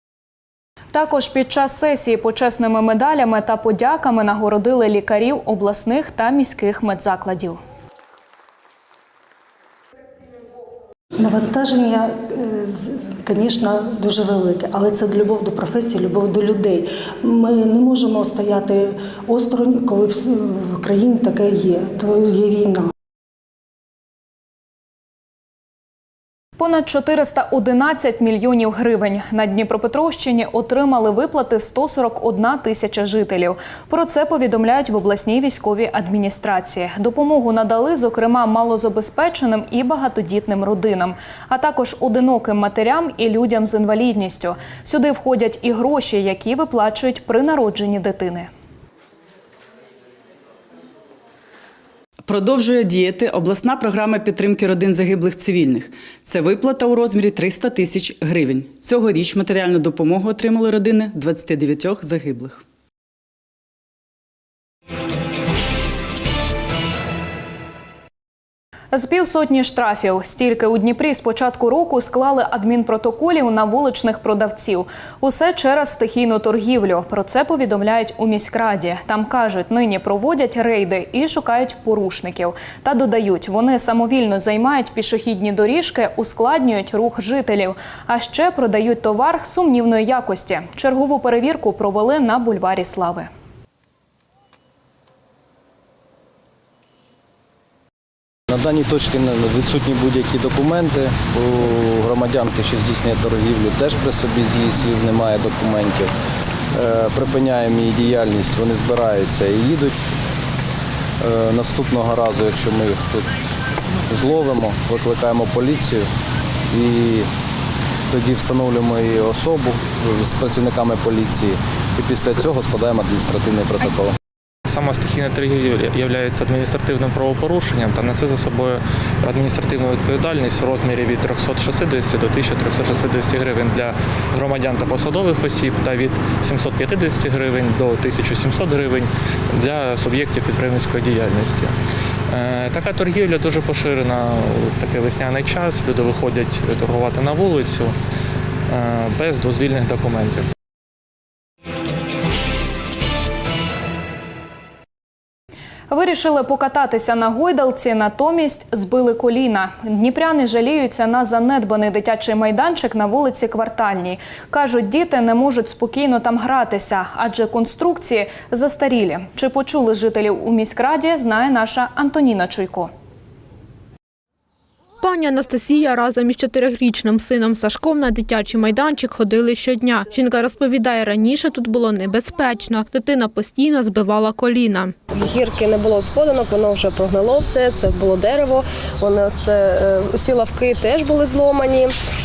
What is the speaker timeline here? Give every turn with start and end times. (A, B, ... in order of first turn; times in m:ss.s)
0:00.9-0:07.6 A
0:11.2-0:22.9 B
0:26.6-0:48.5 A
0:52.3-1:02.6 C
1:08.9-1:33.3 A
1:38.5-1:46.1 D
1:46.7-1:50.0 D
1:51.2-1:53.3 D
1:54.1-1:56.1 D
1:56.7-1:57.3 D
1:58.1-2:04.1 D
2:06.2-2:08.8 E
2:09.4-2:13.9 E
2:14.5-2:19.1 E
2:19.7-2:21.6 E
2:22.6-2:27.8 E
2:29.4-2:30.2 E
2:35.9-2:52.9 A
2:55.0-3:04.9 F
3:05.1-3:11.9 G